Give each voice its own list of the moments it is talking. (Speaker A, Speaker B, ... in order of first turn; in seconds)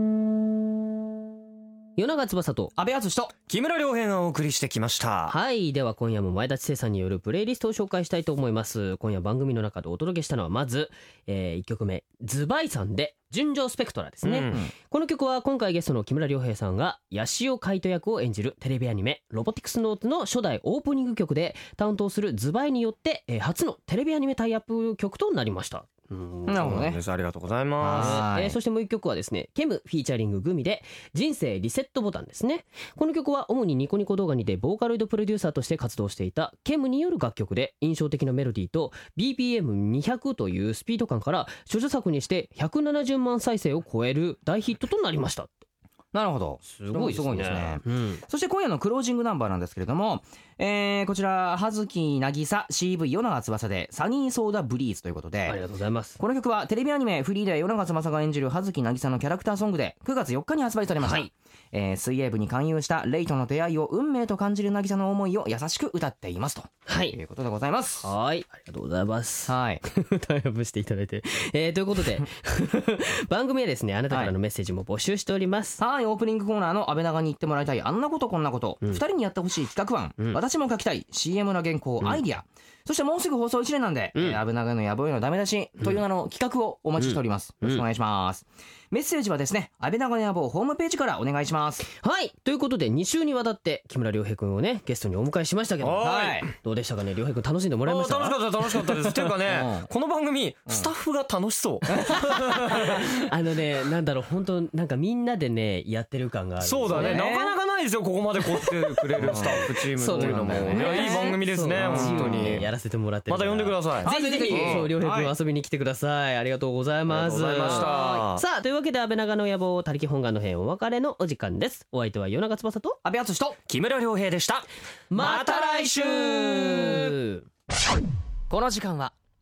Speaker A: 2.0-2.7, 5.3-26.8, 27.9-45.6, 46.6-48.2, 55.5-56.2, 61.0-61.3, 66.9-67.2, 68.0-75.8, 84.1-84.4, 87.0-87.8, 91.9-98.5, 102.5-107.2, 108.6-123.0, 125.1-127.4
Speaker B: 2.8-3.3, 26.4-27.0, 27.8-28.6, 46.1-55.6, 56.2-68.1, 69.5-69.8, 74.1-74.3, 75.8-91.8, 96.0-96.5, 99.3-99.9, 106.9-107.5, 109.2-112.7, 114.0-115.3, 117.6-118.2, 123.0-123.6, 128.5-129.1
Speaker C: 3.5-5.3, 14.2-14.6, 26.6-28.2, 95.8-96.5, 97.8-103.1, 106.6-112.7, 113.3-114.9, 117.1-118.4, 123.7-126.7